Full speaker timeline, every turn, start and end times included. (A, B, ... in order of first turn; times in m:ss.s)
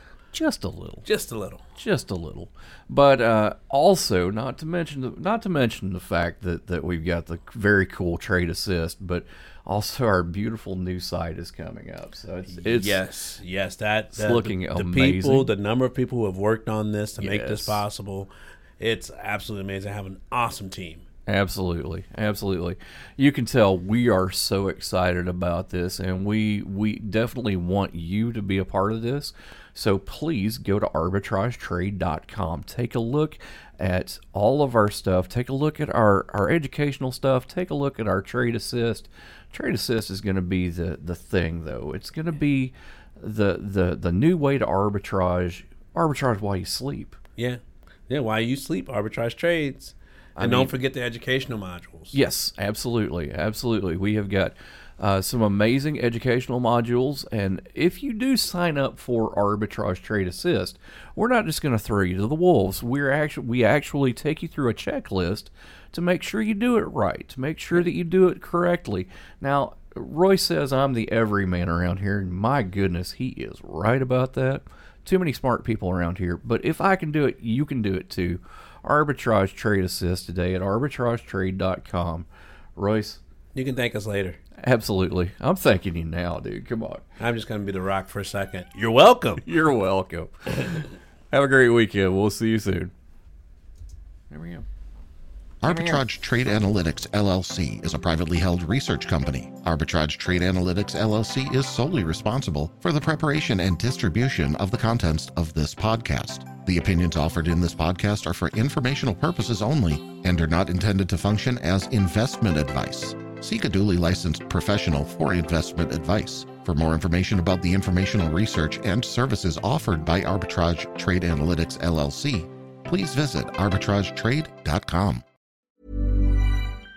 0:00.3-0:01.1 A
0:01.0-0:01.6 B
0:01.8-0:13.0 A
0:12.5-0:21.0 B
0:14.1-0:15.5 A
0:17.2-0:17.8 A
0:21.3-0:47.2 A
0:47.4-0:52.2 B
0:50.4-0:50.7 A
0:52.1-1:23.2 A
1:23.5-1:24.4 B
1:24.6-1:27.1 A
1:27.2-1:29.4 B
1:29.4-1:32.9 A
1:34.3-1:34.6 A
1:35.6-2:05.2 C
1:35.7-1:36.0 A